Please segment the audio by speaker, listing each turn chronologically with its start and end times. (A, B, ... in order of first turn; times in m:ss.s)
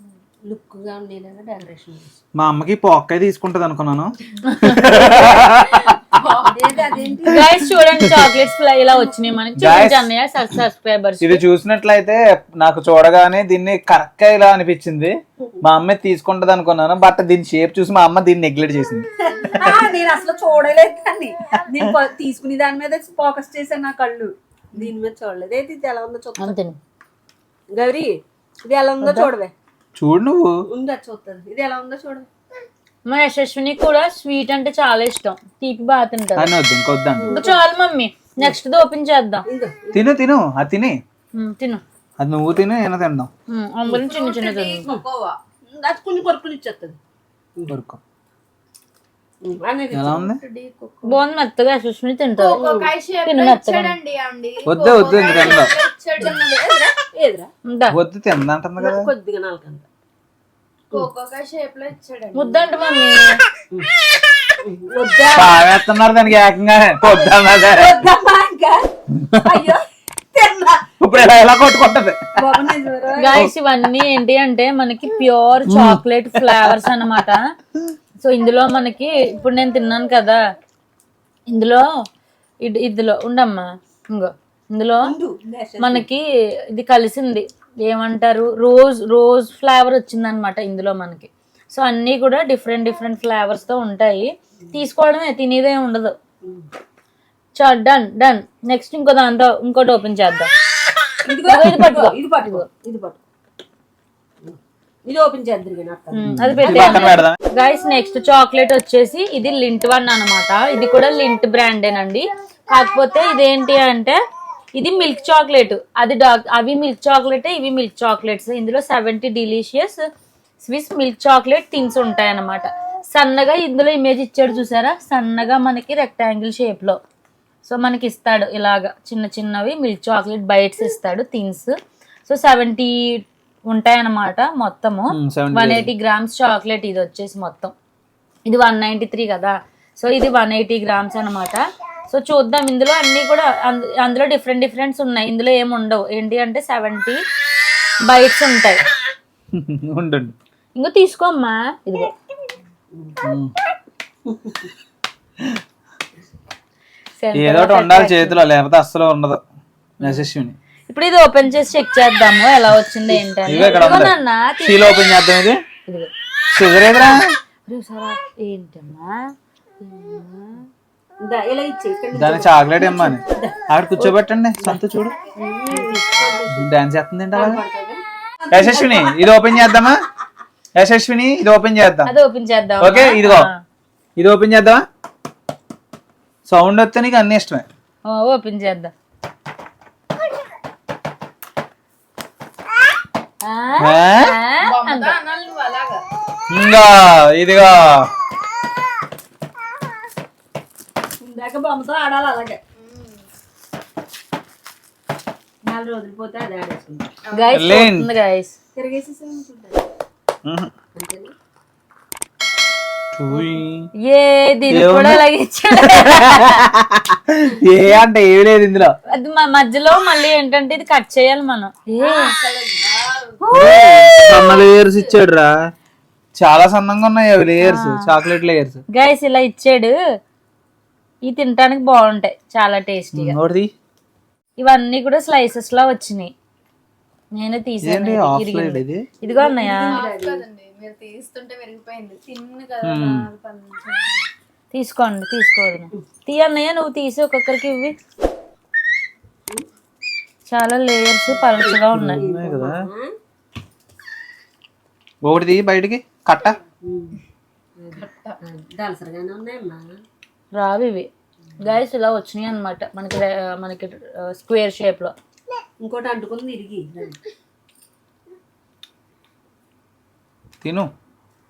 0:00.4-0:02.1 A
0:02.4-0:06.0 B
0:04.4-0:05.2 C
0:05.0-0:07.1 D
0:06.5-0:07.6 A
0:07.3-0:11.4 C
0:08.0-0:08.3 B
0:09.6-0:10.1 B
0:11.2-0:19.0 B
0:19.2-0:26.6 A
0:26.4-0:26.8 C
0:27.7-0:29.5 A
0:29.0-0:29.3 C
0:30.0-0:30.6 B
0:30.7-0:32.3 A
0:33.0-0:36.5 C
0:36.4-0:37.4 B
0:37.2-0:37.6 A
0:37.3-0:39.4 C
0:39.5-0:40.1 A
0:39.9-0:41.0 B
0:41.3-0:41.8 C
0:42.2-0:43.3 B
0:43.5-0:44.9 C
0:43.9-0:45.4 D
0:45.7-0:47.0 A
0:47.7-0:48.0 B
0:49.4-0:50.3 A
0:49.9-0:50.4 B
0:50.2-0:51.2 D
0:51.0-0:52.6 C
0:52.4-0:56.9 D
0:52.6-0:52.9 A
0:53.2-0:54.0 C
0:54.7-0:55.7 B
0:55.0-0:55.6 A
0:56.2-0:56.5 A
0:57.1-0:57.5 A
0:57.7-0:58.0 C
0:57.9-0:59.1 B
0:58.8-0:59.8 A
1:00.9-1:02.7 D
1:02.3-1:03.4 C
1:04.6-1:05.6 A
1:05.3-1:08.0 B
1:07.2-1:10.9 A
1:09.2-1:09.6 B
1:11.0-1:12.7 B
1:12.4-1:13.4 A
1:13.2-1:17.5 C
1:15.7-1:16.9 B
1:18.2-1:20.4 C
1:21.5-1:22.0 C
1:22.6-1:25.1 C
1:25.0-1:26.1 A
1:25.8-1:36.2 C
1:37.6-1:40.5 C
1:41.2-1:43.2 A
1:41.4-1:42.6 C
1:44.4-1:47.0 A
1:46.1-1:54.2 C
1:46.2-1:47.4 B
1:54.7-2:00.0 C
2:00.6-2:07.0 C
2:07.6-2:11.7 C
2:12.2-2:17.7 C
2:15.1-2:15.9 B
2:18.5-2:27.2 C
2:28.0-2:28.8 C
2:29.5-2:30.4 B
2:30.8-2:32.1 C
2:32.9-2:33.2 A
2:33.2-2:33.5 B
2:34.2-2:34.7 A
2:37.2-2:38.4 C
2:37.3-2:39.4 B
2:40.0-2:40.6 B
2:40.9-2:45.0 C
2:43.4-2:45.6 B
2:46.5-2:47.4 B
2:47.7-2:49.3 C
2:49.8-2:50.5 A
2:51.2-2:53.6 A
2:52.1-2:55.2 B
2:55.3-2:56.7 A
2:56.5-2:57.6 B
2:57.3-2:59.3 A
2:58.5-3:00.0 B
3:00.8-3:02.1 B
3:02.0-3:03.6 C
3:02.8-3:03.5 B
3:04.2-3:04.8 B
3:06.4-3:07.6 B
3:08.0-3:08.9 C
3:13.4-3:15.1 C
3:13.8-3:14.3 B
3:14.6-3:16.0 D
3:16.5-3:18.1 B
3:21.2-3:22.6 A
3:22.8-3:23.2 D
3:25.6-3:27.1 A
3:27.2-3:27.7 D
3:27.3-3:28.5 C
3:27.5-3:28.1 B
3:28.7-3:29.8 A
3:30.4-3:30.7 B
3:30.9-3:31.3 A
3:33.1-3:33.9 B
3:34.0-3:36.6 C
3:34.7-3:35.2 B
3:35.8-3:38.9 B
3:39.1-3:42.3 C
3:42.0-3:42.8 A
3:42.2-3:45.2 D
3:43.4-3:44.6 C
3:43.5-3:45.7 B
3:46.4-3:48.8 B
3:47.6-3:48.1 C
3:48.9-3:50.0 C
3:51.2-3:53.4 C
3:53.1-3:53.7 B
3:54.6-3:56.3 C
3:57.3-4:00.0 C
3:57.8-3:59.1 B
3:59.2-4:00.4 A
3:59.9-4:04.2 D
4:02.8-4:03.2 B
4:04.7-4:07.9 C
4:10.5-4:12.2 C
4:11.3-4:13.1 A
4:11.9-4:12.9 B
4:15.2-4:16.6 B
4:16.8-4:17.2 A
4:17.8-4:20.0 A
4:18.0-4:18.4 D
4:20.5-4:21.1 C
4:21.6-4:25.1 C
4:25.8-4:27.2 A
4:30.6-4:30.9 B